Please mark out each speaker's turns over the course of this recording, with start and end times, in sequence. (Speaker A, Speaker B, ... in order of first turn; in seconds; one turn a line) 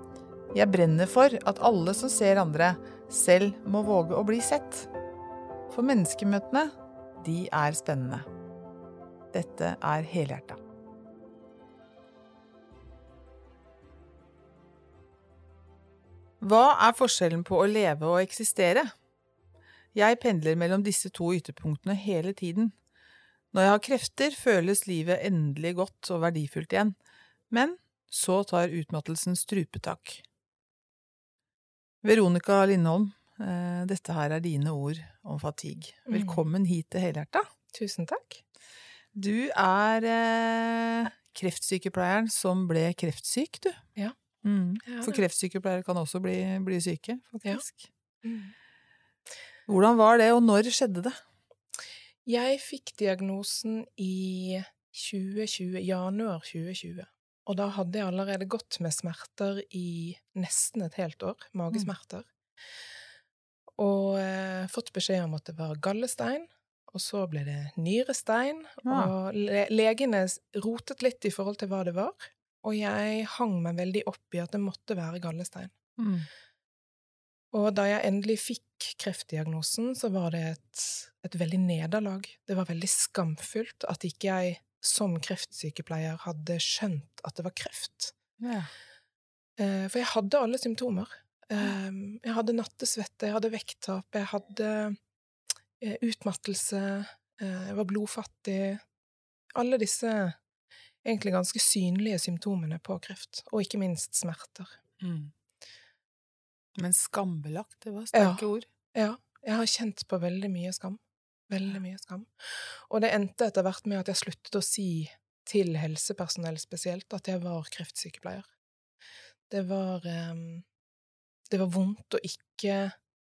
Speaker A: 0.5-4.9
Speaker A: 5.7-8.3
Speaker A: 9.3-10.6
Speaker A: 16.4-18.9
Speaker A: 19.9-22.7
Speaker A: 23.5-26.9
Speaker A: 27.5-30.2
Speaker A: 32.0-37.5
Speaker B: 36.1-36.4
Speaker B: 37.7-38.4
Speaker A: 39.1-43.8
Speaker A: 44.4-47.9
Speaker B: 44.8-45.2
Speaker B: 48.2-48.5
Speaker A: 49.7-51.2
Speaker B: 52.2-62.3
Speaker B: 63.8-75.7
Speaker A: 68.8-69.1
Speaker A: 76.0-76.3
Speaker B: 77.5-88.1
Speaker A: 88.4-88.7
Speaker B: 89.6-95.0
Speaker B: 95.8-98.8
Speaker B: 99.5-100.4
Speaker B: 101.0-104.7
Speaker A: 105.0-105.3
Speaker A: 106.8-108.7
Speaker B: 108.1-118.5
Speaker B: 119.5-120.6
Speaker B: 121.5-122.9